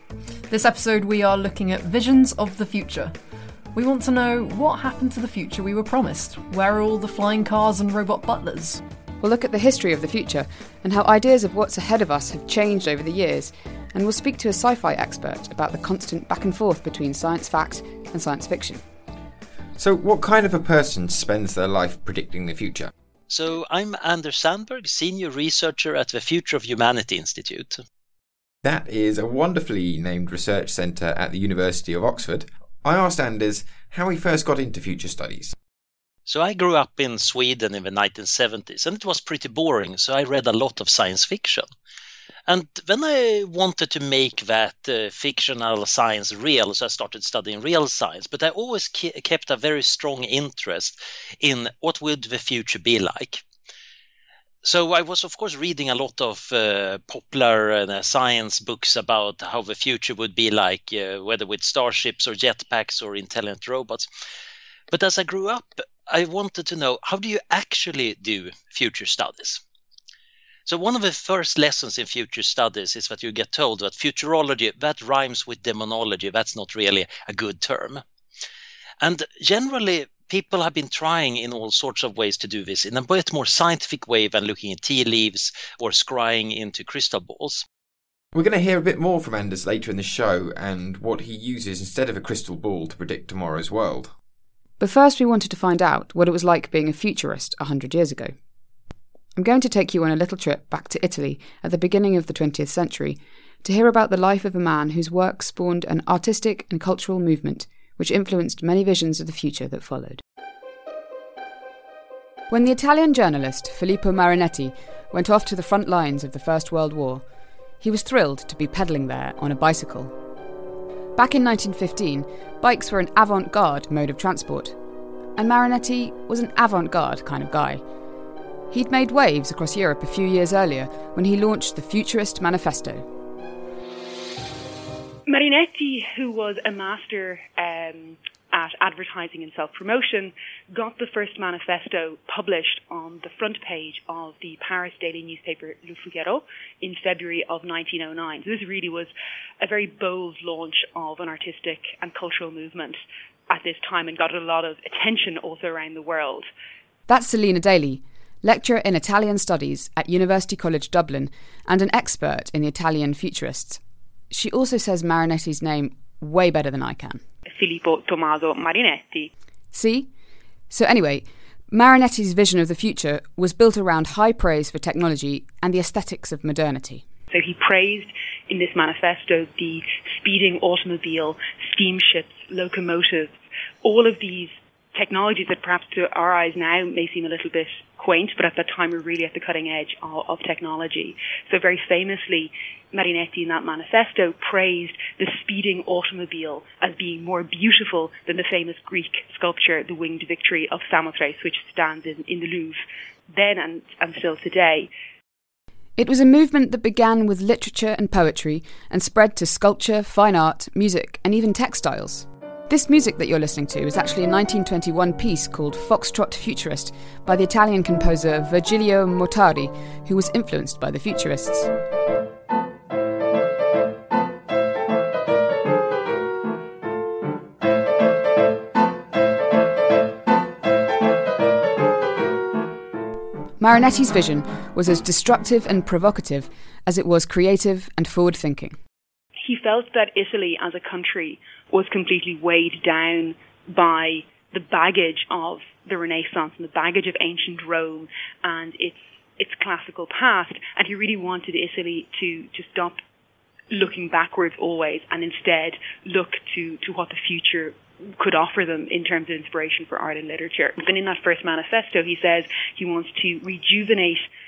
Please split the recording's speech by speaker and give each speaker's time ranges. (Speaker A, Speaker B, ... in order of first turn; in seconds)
Speaker A: 0.5-3.2, 3.7-8.8
Speaker B: 9.2-18.8, 94.8-98.3, 99.4-110.2, 112.5-117.2, 117.8-120.1, 121.2-124.8, 125.4-127.8, 128.7-133.1, 157.1-167.2, 169.7-170.1, 170.7-177.1, 206.0-221.7, 233.6-238.8
Speaker C: 19.8-22.9, 28.6-35.5, 88.3-94.1
Speaker D: 23.3-27.8, 36.3-41.7, 42.5-53.4, 54.6-64.1, 64.9-69.6, 70.7-78.0, 79.0-87.6
Speaker E: 135.3-156.5, 167.5-169.3, 177.3-204.9, 239.4-253.0, 253.7-264.3